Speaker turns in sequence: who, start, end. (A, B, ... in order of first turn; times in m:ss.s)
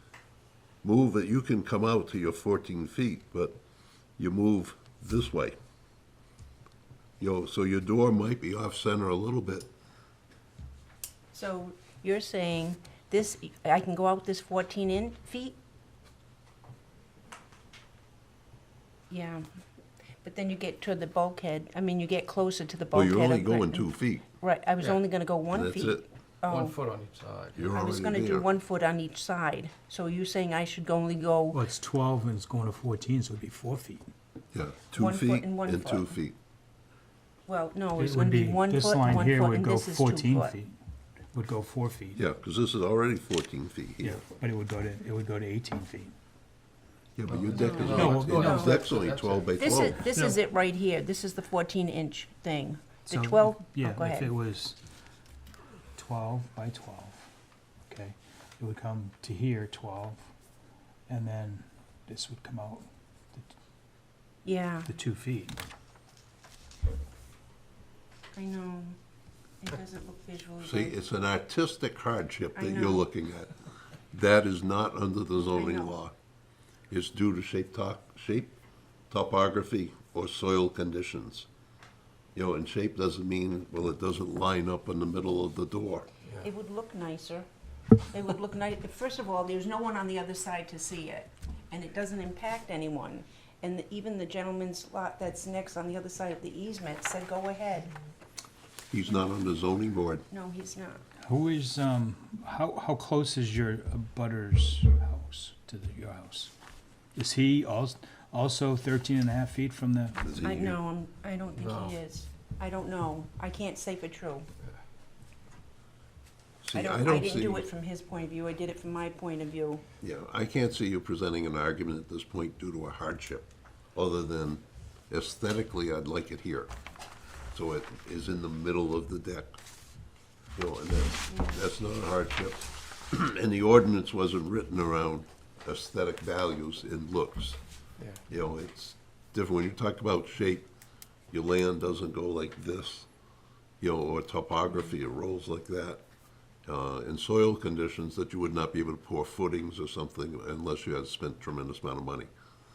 0:00.8-0:03.6 A
0:04.2-0:05.6 A
0:07.2-0:09.7 A
0:11.3-0:15.6 B
0:19.1-0:19.4 B
0:20.2-0:26.8 B
0:22.9-0:24.3 A
0:25.5-0:26.0 A
0:26.5-0:27.7 C
0:27.5-0:28.5 A
0:27.7-0:31.6 B
0:31.5-0:34.0 D
0:34.5-0:36.4 A
0:34.9-0:36.2 B
0:37.5-0:40.6 B
0:38.0-0:40.7 D
0:41.3-0:42.2 D
0:42.2-0:44.2 A
0:44.0-0:46.1 D
0:47.2-0:50.0 A
0:47.2-0:49.7 C
0:47.6-0:48.8 B
0:47.9-0:48.7 D
0:49.6-0:54.3 B
0:53.1-0:54.8 D
0:56.0-0:57.2 D
0:57.9-1:00.2 D
1:01.1-1:03.5 D
1:04.4-1:04.9 B
1:04.8-1:05.6 D
1:08.4-1:09.0 B
1:09.6-1:11.0 B
1:10.6-1:13.6 A
1:12.5-1:13.1 B
1:14.1-1:16.1 A
1:15.5-1:16.0 B
1:16.9-1:18.5 A
1:19.1-1:21.5 A
1:22.3-1:26.1 A
1:26.4-1:27.4 B
1:28.1-1:37.9 B
1:38.9-1:40.2 A
1:40.3-1:41.0 B
1:41.2-1:46.5 D
1:47.1-1:50.2 D
1:50.2-1:50.8 A
1:50.4-1:54.5 B
1:51.6-1:52.0 C
1:56.6-1:57.6 A
1:56.7-1:59.8 B
2:00.0-2:06.7 A
2:07.5-2:09.6 A
2:10.5-2:17.6 A
2:11.3-2:11.6 B
2:18.3-2:20.7 A
2:21.3-2:23.1 A
2:23.8-2:26.0 A
2:26.6-2:32.3 A